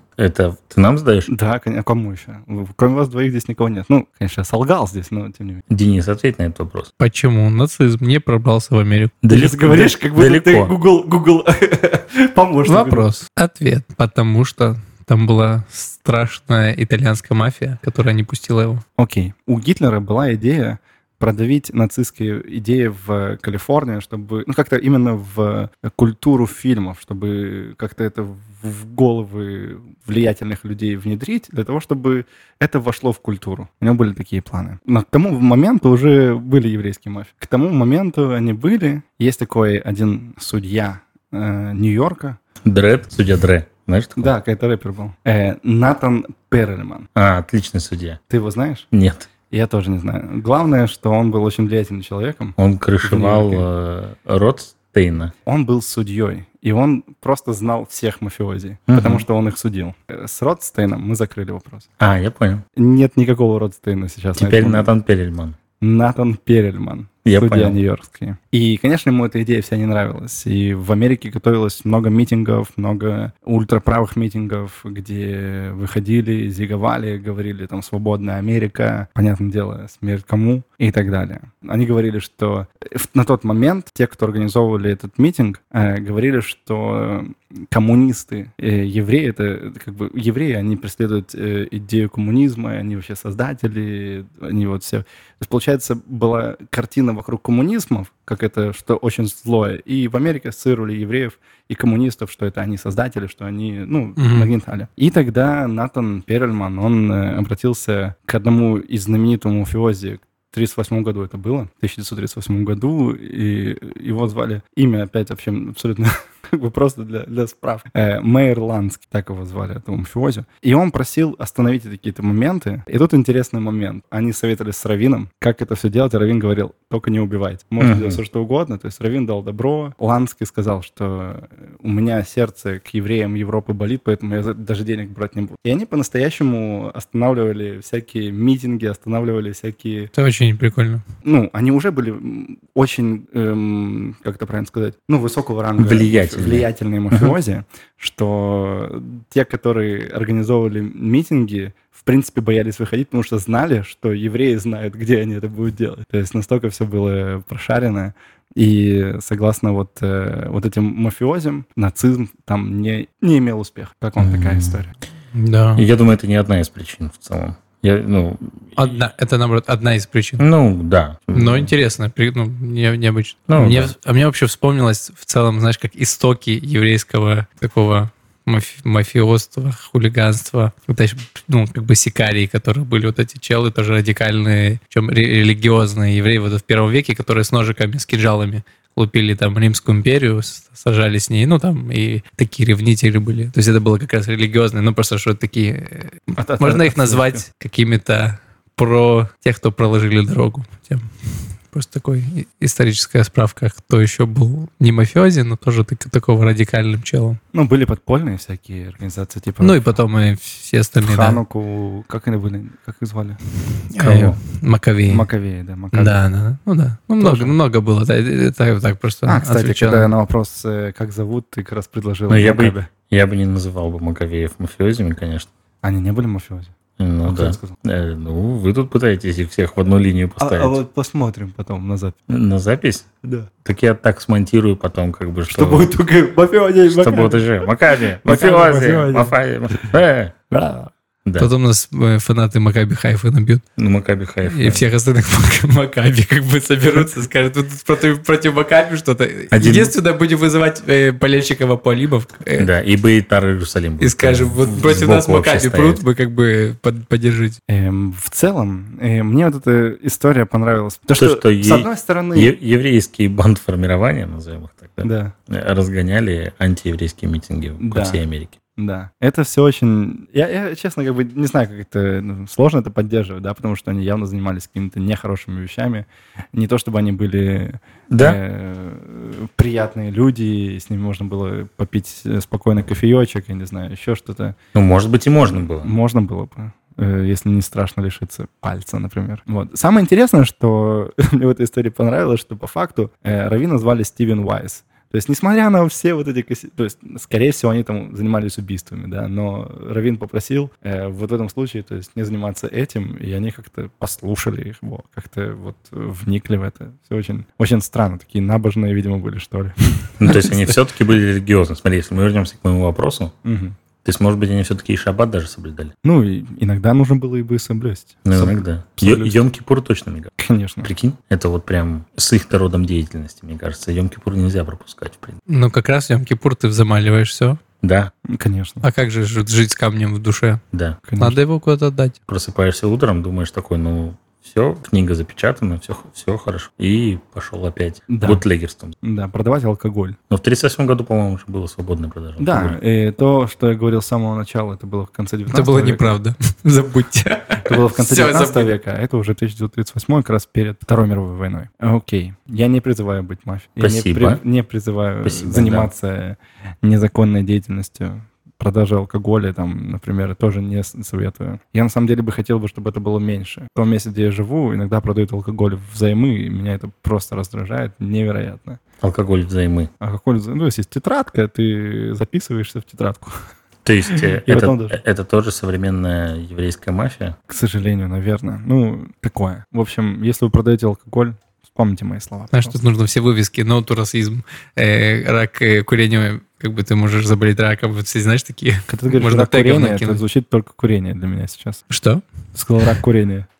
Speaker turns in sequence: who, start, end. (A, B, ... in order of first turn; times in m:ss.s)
0:00.1-0:01.3 A
0:01.3-0:05.6 B
0:05.7-0:06.9 A
0:07.0-0:09.2 C
0:09.2-0:10.7 A
0:09.3-0:13.1 B
0:12.7-0:18.8 C
0:19.0-0:42.4 B
0:42.6-0:44.3 A
0:44.2-0:47.1 B
0:47.1-0:48.2 A
0:48.3-0:48.9 B
0:48.9-0:49.3 A
0:49.5-0:53.6 B
0:52.6-0:55.3 A
0:55.4-1:01.9 B
0:58.9-0:59.2 A
1:02.0-1:02.6 A
1:02.8-1:04.9 B
1:04.4-1:05.6 A
1:05.8-2:20.1 B
1:07.2-1:07.8 A
1:44.2-1:44.5 C
2:07.8-2:08.2 A
2:20.1-2:21.0 C
2:21.2-2:44.9 B
2:25.8-2:27.3 A
2:44.2-2:44.8 A
2:45.3-2:45.8 C
2:45.8-2:48.8 A
2:48.8-2:50.4 C
2:50.4-2:51.7 A
2:51.3-3:27.4 C
2:53.5-2:53.9 A
3:16.4-3:17.4 B
3:27.5-3:29.9 B
3:29.6-3:31.4 C
3:31.0-3:33.4 B
3:33.9-3:35.3 C
3:34.0-3:34.4 A
3:35.1-3:36.2 B
3:35.9-3:40.1 C
3:37.2-3:37.5 B
3:39.2-3:42.9 B
3:42.3-3:45.5 A
3:45.8-3:47.8 B
3:47.0-3:50.8 A
3:50.4-3:52.2 B
3:52.3-3:53.0 A
3:53.2-3:53.5 B
3:53.6-3:55.9 A
3:55.5-3:59.9 B
3:56.9-4:00.3 A
4:00.5-4:00.9 B
4:01.2-4:01.5 A
4:01.4-4:03.6 C
4:03.8-4:04.8 A
4:04.5-4:12.7 C
4:09.5-4:09.9 A
4:12.6-4:16.0 A
4:14.0-4:17.6 C
4:17.7-4:22.5 B
4:21.2-4:28.6 A
4:25.0-4:25.3 B
4:27.8-4:28.2 B
4:28.8-4:44.5 B
4:38.1-4:38.4 A
4:44.7-4:45.9 A
4:45.8-5:10.6 B
5:10.2-5:13.3 A
5:13.4-5:13.8 B
5:14.0-5:15.9 A
5:16.0-5:19.4 B
5:18.2-5:25.4 A
5:20.4-5:20.9 B
5:25.5-5:27.6 C
5:27.8-5:28.1 A
5:28.3-5:28.8 B
5:28.8-5:30.6 C
5:30.7-5:31.0 A
5:31.1-5:31.4 B
5:31.2-5:32.2 C
5:32.3-5:39.0 A
5:38.1-5:38.4 B
5:39.0-5:40.2 B
5:40.3-5:42.8 A
5:42.4-5:46.1 B
5:45.5-5:48.7 C
5:47.6-6:08.8 B
5:53.8-5:54.4 A
5:55.2-5:55.9 A
6:09.0-6:09.9 A
6:10.0-6:13.4 B
6:13.8-6:17.4 A
6:14.1-6:15.0 B
6:17.5-6:22.8 B
6:22.5-6:30.2 C
6:28.9-6:31.8 B
6:31.9-6:32.2 C
6:32.5-6:33.5 B